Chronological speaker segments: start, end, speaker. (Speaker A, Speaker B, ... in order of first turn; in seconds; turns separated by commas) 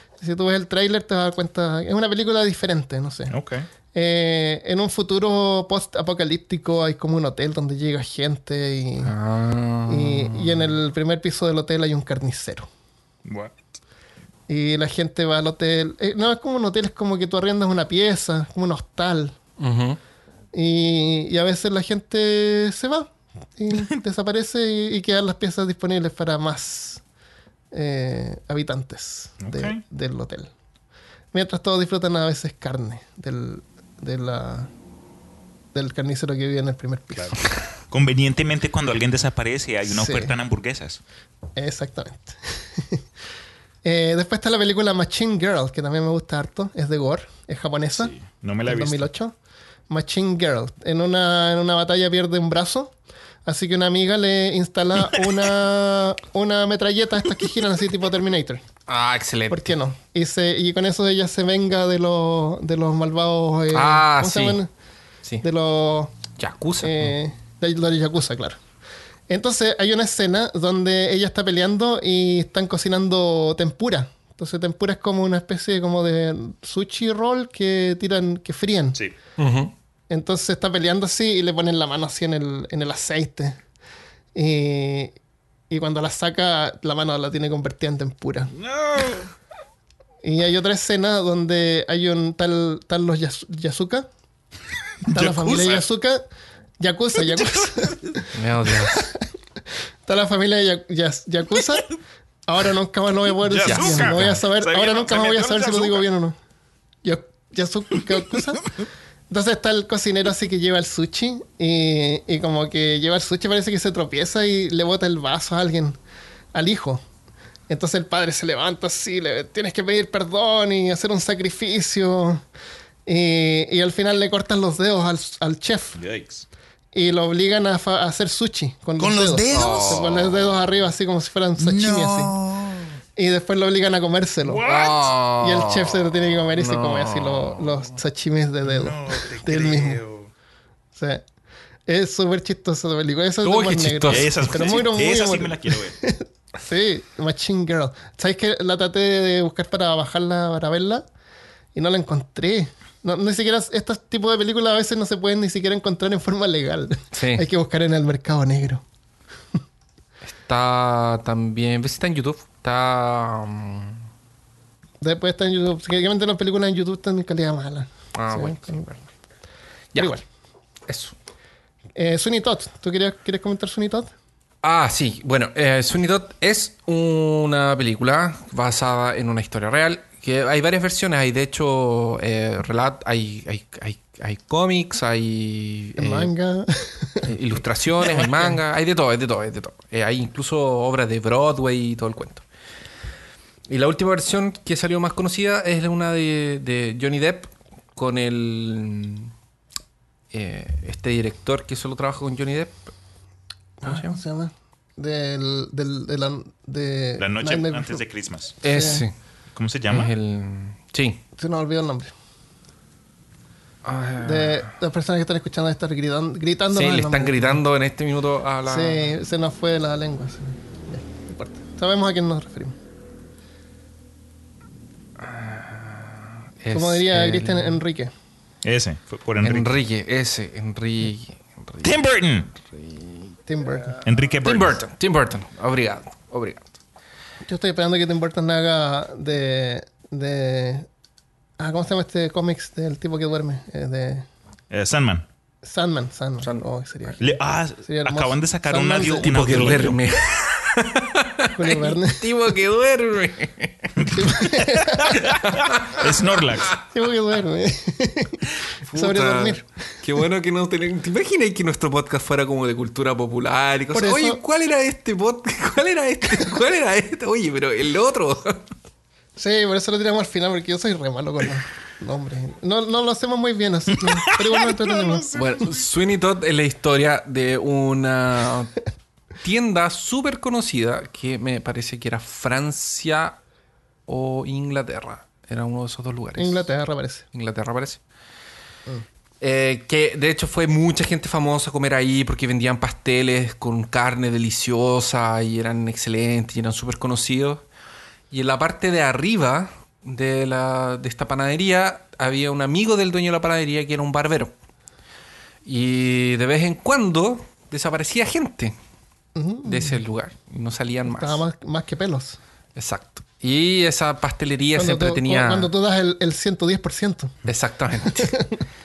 Speaker A: 0.2-3.3, Speaker B: 3.3-3.7, Speaker A: 3.9-9.1, Speaker C: 9.0-10.7, Speaker A: 9.9-12.7, Speaker B: 13.3-13.6, Speaker A: 14.5-19.4, Speaker C: 19.6-20.0, Speaker A: 20.5-27.0, Speaker A: 27.7-30.5, Speaker B: 29.4-29.8, Speaker A: 31.3-34.7, Speaker A: 35.7-37.4, Speaker B: 37.9-41.0, Speaker A: 39.9-40.3, Speaker A: 41.6-43.0, Speaker A: 43.8-48.1, Speaker B: 48.0-49.1, Speaker A: 48.6-49.3, Speaker A: 49.9-52.9, Speaker A: 53.5-58.6, Speaker C: 58.9-59.8, Speaker A: 59.5-64.7, Speaker C: 63.7-64.6, Speaker A: 65.4-66.2, Speaker C: 66.4-67.2, Speaker A: 66.8-68.6, Speaker A: 69.3-79.0, Speaker C: 79.4-79.7, Speaker A: 80.1-83.6, Speaker A: 84.3-85.2, Speaker A: 85.7-88.5, Speaker B: 88.5-89.3, Speaker A: 90.2-94.1, Speaker A: 95.0-96.2, Speaker B: 95.1-95.9, Speaker A: 96.8-98.3, Speaker B: 97.2-98.1, Speaker C: 98.3-99.0, Speaker A: 98.8-99.2, Speaker A: 100.1-101.9, Speaker A: 102.5-106.4, Speaker B: 103.4-106.1, Speaker C: 103.7-104.4, Speaker A: 107.0-108.7, Speaker A: 109.3-116.0, Speaker A: 116.5-117.0, Speaker A: 117.7-122.4, Speaker A: 123.1-126.0, Speaker B: 126.0-126.5, Speaker A: 126.9-132.3, Speaker B: 129.0-130.4, Speaker C: 129.5-130.1, Speaker B: 131.6-132.8, Speaker A: 133.2-134.6, Speaker B: 134.4-135.1, Speaker C: 134.7-137.9, Speaker A: 135.4-140.0, Speaker B: 138.6-140.3, Speaker A: 140.9-141.2, Speaker A: 141.9-151.0, Speaker C: 143.4-144.7, Speaker B: 144.1-146.0, Speaker A: 151.8-158.8, Speaker C: 157.2-157.5, Speaker C: 160.3-164.0, Speaker A: 165.0-169.0, Speaker C: 168.2-168.9, Speaker C: 169.9-170.2, Speaker C: 170.9-171.2, Speaker A: 172.0-174.1, Speaker C: 174.6-186.3, Speaker A: 186.0-187.3, Speaker C: 187.2-192.4, Speaker A: 188.0-188.6, Speaker C: 193.7-199.3, Speaker C: 200.3-202.8, Speaker C: 203.8-204.2, Speaker A: 203.8-208.0, Speaker B: 207.2-208.6, Speaker C: 208.6-209.1, Speaker A: 208.6-209.1, Speaker B: 209.6-210.1, Speaker C: 209.9-211.2, Speaker A: 211.4-212.1, Speaker C: 213.8-214.7, Speaker A: 214.2-217.6, Speaker C: 216.7-219.1, Speaker A: 218.7-222.8, Speaker C: 225.2-227.8, Speaker A: 226.7-228.1, Speaker B: 228.6-229.8, Speaker C: 229.4-232.0, Speaker B: 231.8-232.5, Speaker C: 232.7-233.3, Speaker A: 233.5-234.0, Speaker B: 234.0-234.8, Speaker C: 234.4-236.8, Speaker A: 237.4-240.9, Speaker A: 241.6-244.3, Speaker B: 244.7-245.3, Speaker A: 245.6-249.7, Speaker B: 247.2-250.0, Speaker C: 249.1-254.0, Speaker A: 251.5-252.2, Speaker B: 254.0-256.8, Speaker A: 254.1-255.2, Speaker C: 255.4-256.1, Speaker A: 256.9-259.6, Speaker C: 258.9-268.7, Speaker A: 263.9-264.4, Speaker A: 269.4-275.4, Speaker B: 274.2-275.4, Speaker C: 275.4-278.7, Speaker C: 279.4-283.4, Speaker C: 284.1-286.7, Speaker A: 286.4-287.2, Speaker C: 287.3-288.0, Speaker C: 289.4-297.6, Speaker C: 298.3-304.5, Speaker C: 305.6-308.8, Speaker A: 309.4-310.0, Speaker C: 309.6-311.4, Speaker A: 311.1-312.4, Speaker C: 312.8-315.7, Speaker A: 314.8-317.4, Speaker C: 317.4-318.4, Speaker A: 318.2-318.6